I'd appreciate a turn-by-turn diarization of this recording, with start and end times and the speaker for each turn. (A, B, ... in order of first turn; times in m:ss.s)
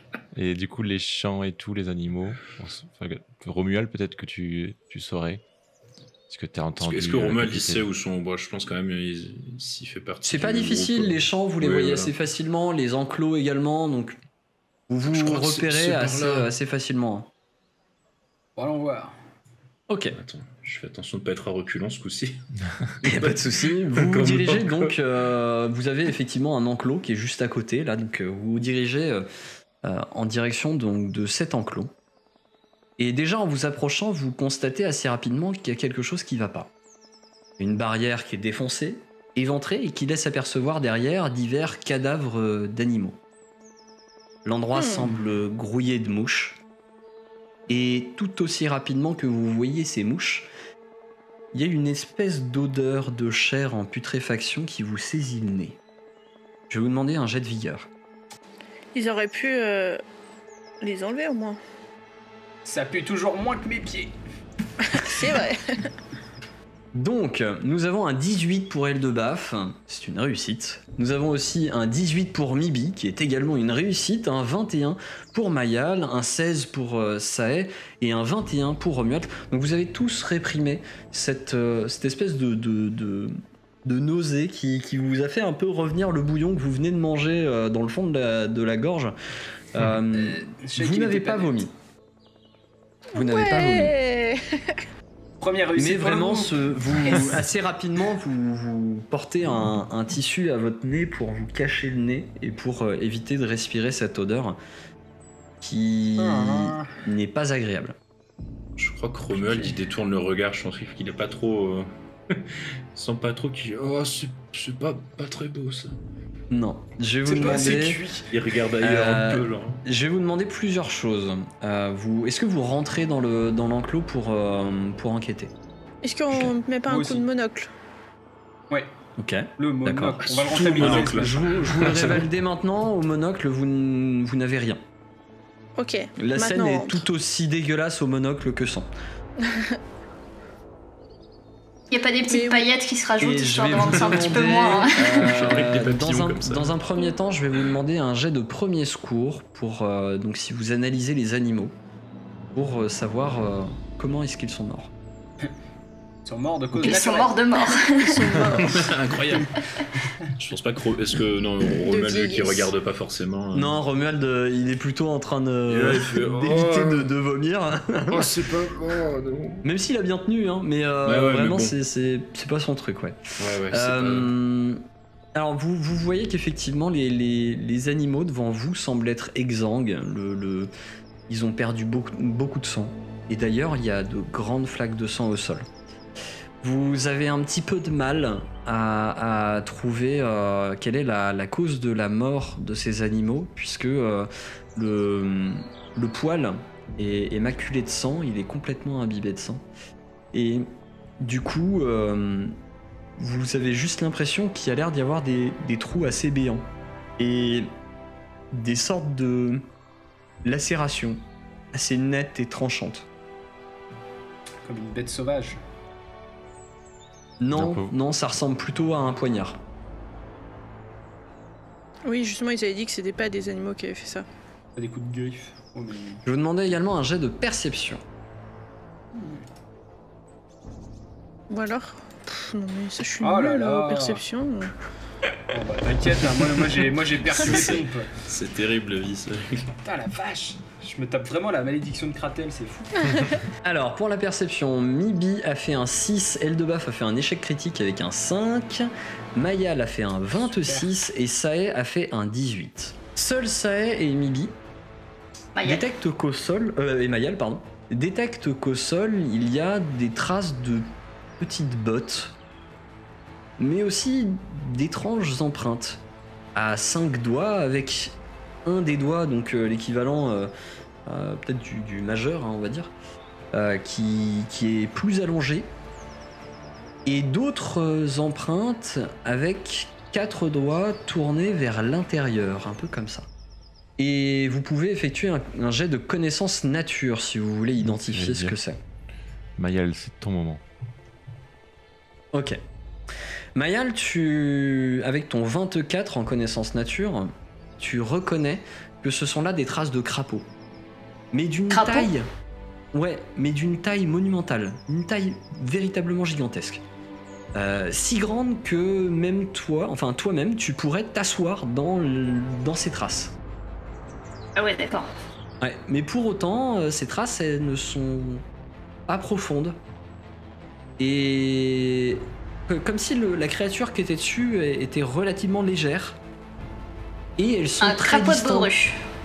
0:00.3-0:05.4 A
0:06.3-0:07.9 A
0:06.8-0:12.1 B
0:10.2-0:14.2 C
0:14.9-0:17.3 C
0:15.1-0:16.5 B
0:18.6-0:19.1 D
0:19.9-0:20.2 C
0:20.2-0:22.4 B
0:23.0-0:24.9 B
0:23.0-0:29.3 C
0:29.8-0:31.9 C
0:33.0-0:36.7 C
0:37.6-0:43.2 C
0:44.4-0:46.6 C
0:44.8-0:45.0 E
0:47.7-0:50.5 C
0:51.5-0:55.8 C
0:56.7-0:57.9 C
0:59.0-1:00.0 E
1:00.8-1:01.6 E
1:02.6-1:04.1 D
1:04.9-1:05.9 E
1:06.9-1:29.2 C
1:29.7-1:31.7 C
1:30.1-1:31.6 D
1:33.1-1:34.0 C
1:33.2-1:34.8 E
1:35.4-1:37.4 D
1:35.8-1:44.6 C
1:45.6-1:48.0 C
1:46.2-1:46.9 D
1:48.8-1:56.0 B
1:49.4-1:49.7 C
1:56.5-1:58.1 C
1:57.3-1:58.2 D
1:57.3-1:59.8 B
1:58.8-2:05.5 C
2:06.0-2:07.7 E
2:06.9-2:07.2 D
2:09.2-2:14.8 C
2:09.6-2:11.7 D
2:10.3-2:12.3 B
2:15.8-2:17.0 E
2:16.2-2:18.9 C
2:19.4-2:19.8 E
2:21.9-2:25.3 F
2:22.3-2:22.7 E
2:23.2-2:31.7 C
2:23.8-2:26.8 B
2:32.5-2:34.9 C
2:36.2-2:37.4 D
2:36.8-2:38.4 F
2:37.8-2:38.9 E
2:38.6-2:39.6 B
2:40.4-2:43.8 B
2:41.8-2:42.7 E
2:43.5-2:48.4 C
2:45.7-2:47.1 B
2:48.1-2:49.6 B
2:49.6-2:54.8 C
2:51.0-2:51.8 B
2:53.4-2:54.3 B
2:55.4-3:00.7 C
3:01.3-3:05.7 C
3:06.6-3:19.6 C
3:20.3-3:20.7 C
3:21.2-3:22.6 C
3:23.2-3:26.7 C
3:27.2-3:27.7 C
3:28.5-3:29.7 C
3:30.4-3:31.2 C
3:31.7-3:33.1 C
3:34.6-3:35.6 D
3:37.4-3:39.6 C
3:37.6-3:37.9 A
3:42.1-3:44.2 E
3:44.8-3:46.2 D
3:46.2-3:48.0 C
3:51.5-3:54.7 E
3:53.2-3:54.2 D
3:55.5-3:58.1 D
3:57.3-3:59.7 B
3:59.8-4:03.3 D
4:03.6-4:14.6 C
4:10.4-4:10.9 D
4:15.6-4:15.8 F
4:15.6-4:20.9 C
4:21.4-4:22.4 C
4:23.6-4:26.0 C
4:26.6-4:30.5 C
4:31.1-4:32.9 C
4:33.5-4:35.7 C
4:37.1-4:43.3 C
4:44.0-4:48.8 C
4:47.9-4:48.6 A
4:49.6-4:50.6 A
4:52.3-4:52.6 C
4:53.6-5:00.5 C
5:01.3-5:02.3 C
5:01.7-5:02.1 F
5:02.9-5:06.8 C
5:07.6-5:13.4 C
5:14.6-5:15.1 F
5:15.6-5:18.4 C
5:19.1-5:19.8 C
5:21.0-5:26.2 C
5:27.4-5:28.7 C
5:27.8-5:29.0 F